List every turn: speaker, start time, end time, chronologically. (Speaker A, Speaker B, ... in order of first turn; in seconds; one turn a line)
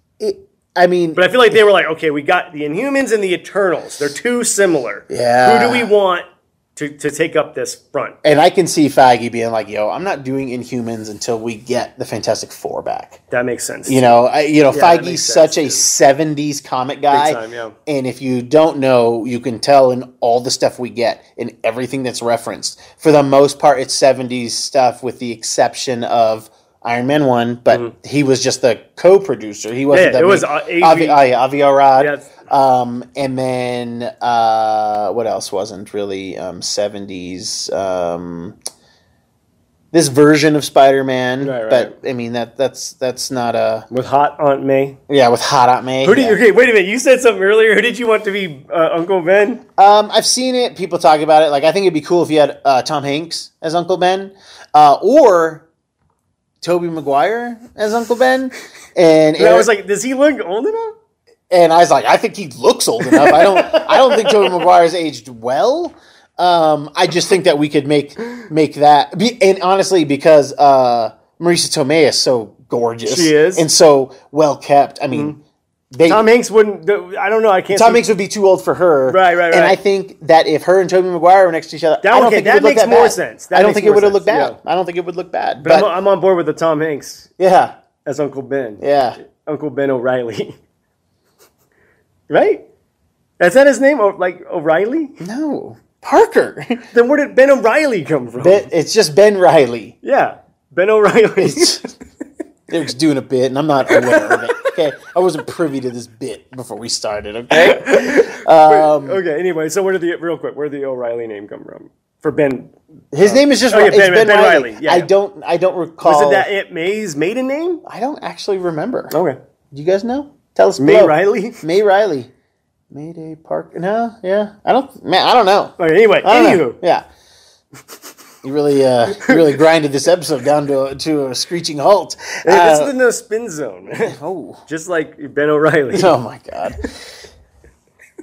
Speaker A: 0.2-1.6
Speaker B: 1.2-8.2
Speaker A: 5.1-5.9
Speaker A: 8.2-13.2
Speaker B: 13.3-14.1
Speaker A: 13.9-38.6
Speaker B: 14.7-15.9
Speaker B: 17.1-17.8
Speaker B: 29.9-31.2
Speaker B: 32.0-32.3
Speaker A: 39.9-43.9
Speaker B: 41.4-41.9
Speaker B: 43.9-45.0
Speaker A: 45.1-46.4
Speaker B: 46.0-49.6
Speaker A: 49.8-55.6
Speaker A: 56.6-59.7
Speaker B: 59.4-60.9
Speaker A: 61.5-75.4
Speaker B: 63.0-64.5
Speaker B: 73.1-73.7
Speaker A: 75.9-76.2
Speaker B: 76.1-78.0
Speaker A: 77.7-85.9
Speaker B: 79.1-79.8
Speaker B: 82.0-84.6
Speaker B: 85.6-87.3
Speaker A: 87.4-87.7
Speaker B: 88.0-90.6
Speaker A: 88.8-89.2
Speaker B: 92.3-92.6
Speaker B: 93.4-95.1
Speaker A: 95.2-96.8
Speaker B: 96.9-98.7
Speaker A: 98.4-100.0
Speaker B: 100.0-101.9
Speaker A: 101.4-101.9
Speaker A: 102.7-109.2
Speaker B: 103.9-104.6
Speaker B: 107.5-112.7
Speaker A: 113.1-116.5
Speaker B: 113.2-115.1
Speaker B: 116.0-117.8
Speaker A: 117.8-119.2
Speaker B: 119.1-119.4
Speaker A: 119.7-122.3
Speaker B: 120.8-121.6
Speaker A: 122.9-127.0
Speaker B: 125.8-126.8
Speaker A: 128.4-132.9
Speaker B: 129.2-129.5
Speaker B: 132.4-134.2
Speaker A: 134.0-134.6
Speaker B: 134.7-136.2
Speaker A: 135.9-136.8